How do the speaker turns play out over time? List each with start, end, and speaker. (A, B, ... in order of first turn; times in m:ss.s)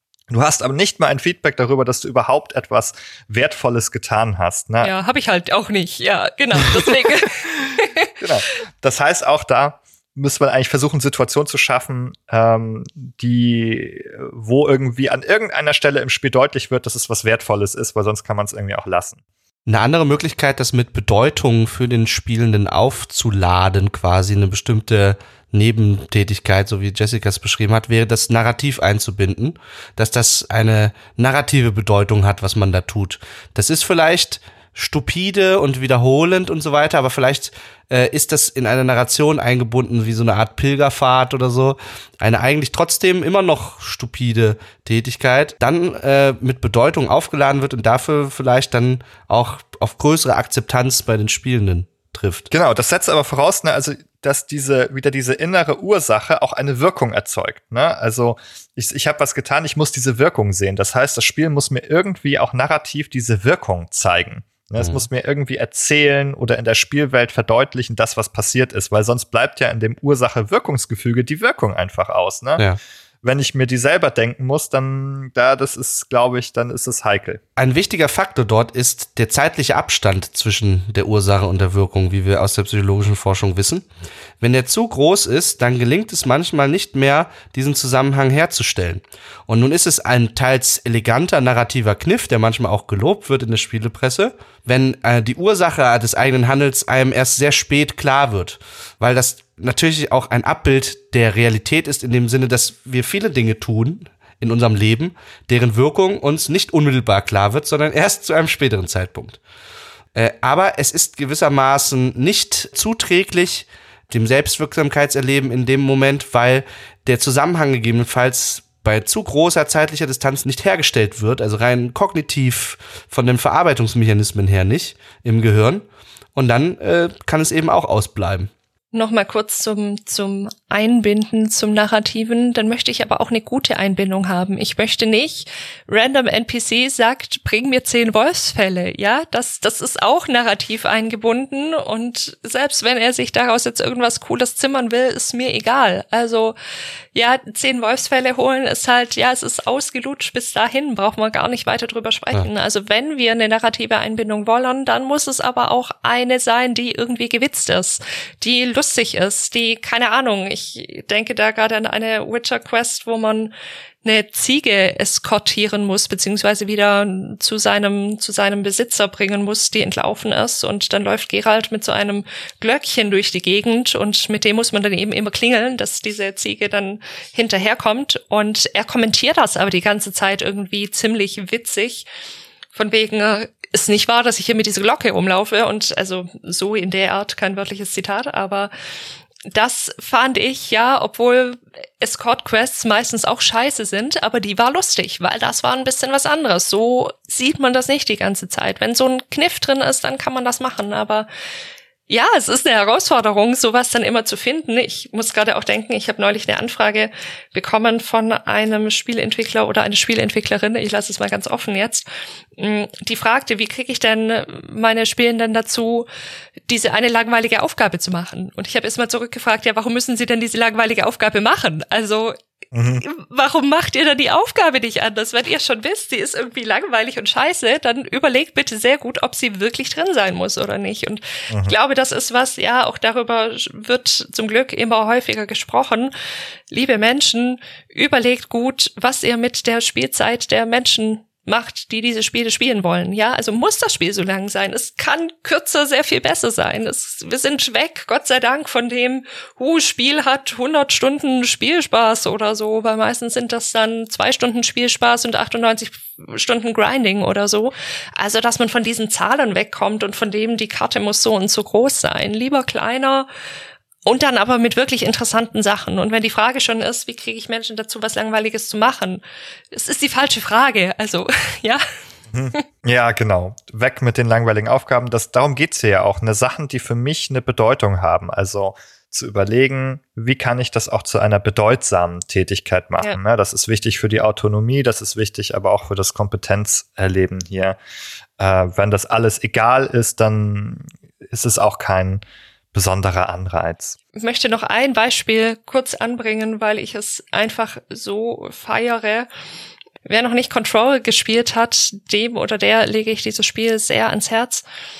0:00.3-0:04.9 A
0:04.8-0:08.1 B
0:08.2-0:19.2 A
0:19.6-0:52.5 C
0:52.5-1:12.6 A
1:04.8-1:05.1 C
1:13.2-1:17.4 A
1:17.6-1:23.8 C
1:24.4-1:49.4 C
1:50.1-2:05.8 C
2:06.4-2:08.5 C
2:08.9-2:26.6 B
2:27.1-2:43.5 B
2:44.0-3:02.1 B
3:02.7-3:08.7 B
3:09.5-3:21.3 B
3:22.1-3:36.1 B
3:36.7-3:42.4 B
3:42.7-3:43.0 A
3:43.0-3:56.1 B
3:56.7-4:23.3 B
4:24.0-4:31.8 B
4:32.3-4:47.8 A
4:48.4-4:52.2 A
4:52.7-4:53.9 A
4:54.1-4:59.3 B
5:00.0-5:04.6 B